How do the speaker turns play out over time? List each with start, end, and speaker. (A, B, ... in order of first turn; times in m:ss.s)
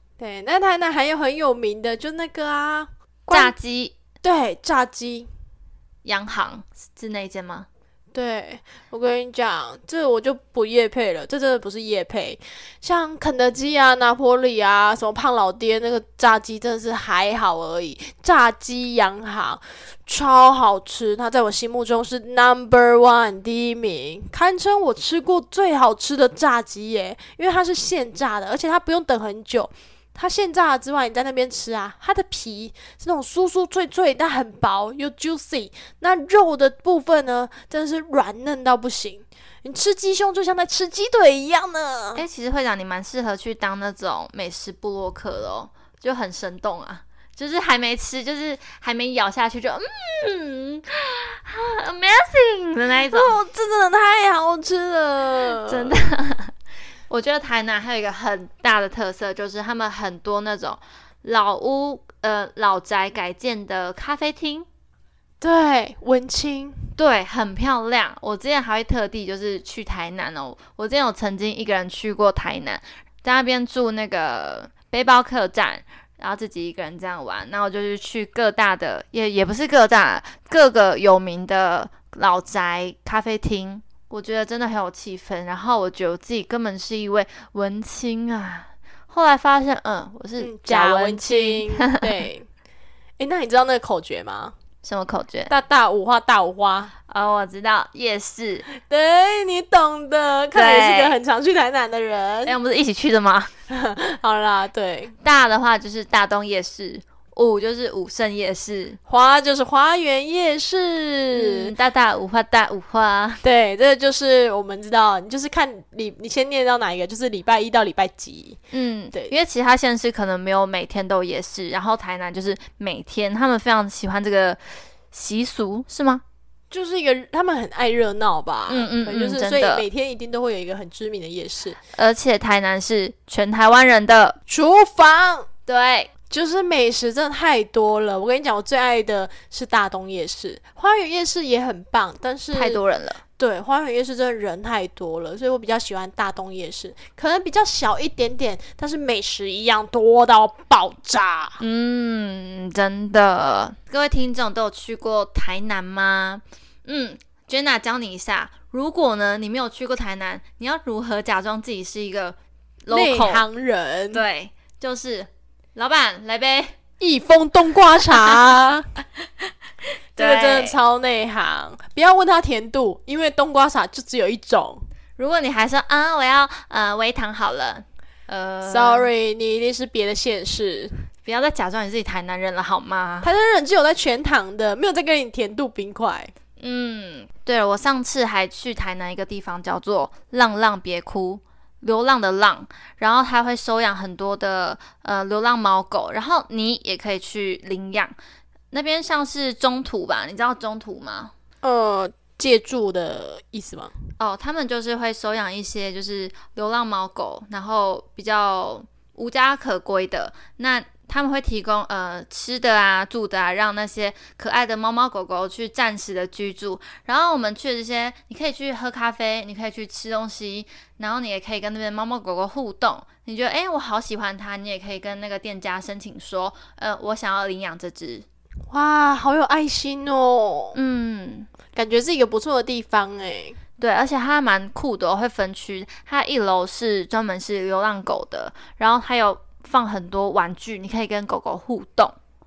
0:00.2-0:03.5 A
0:03.3-0:03.9 B
0:04.2-0:05.3 A
0:06.0-0:07.7 B
0:08.1-0:42.2 A
0:42.2-0:53.4 B
0:53.1-0:55.9 A
0:55.6-0:56.5 B
0:57.1-1:04.7 B
1:05.4-1:06.9 A
1:07.0-1:32.0 B
1:30.4-1:32.5 A
1:33.2-1:34.5 A
1:34.8-1:35.5 B
1:35.5-1:36.9 A
1:37.1-1:38.7 B
1:38.7-1:42.5 A
1:40.5-1:41.2 B
1:42.4-1:43.5 B
1:43.7-1:45.1 A
1:45.2-1:49.0 B
1:49.1-1:51.7 A
1:51.3-1:53.4 B
1:53.4-1:58.6 A
1:58.7-2:04.6 B
2:05.1-2:06.2 B
2:06.7-2:11.8 A
2:08.7-2:09.9 B
2:11.9-2:14.4 B
2:14.5-2:15.5 A
2:15.7-2:16.1 B
2:16.3-2:22.8 A
2:22.5-2:23.2 B
2:23.4-2:31.6 A
2:31.6-2:43.5 B
2:42.9-2:44.2 A
2:44.1-2:46.8 B
2:47.0-2:48.8 A
2:50.2-2:50.8 B
2:50.2-2:54.8 A
2:55.2-2:59.1 B
2:58.6-3:00.9 A
3:01.2-3:03.3 B
3:03.2-3:06.3 A
3:06.6-3:18.1 B
3:18.7-3:21.3 B
3:21.6-3:23.9 A
3:24.2-3:48.2 B
3:48.7-3:50.8 A
3:50.7-3:51.5 B
3:51.7-3:53.6 A
3:53.8-4:02.2 B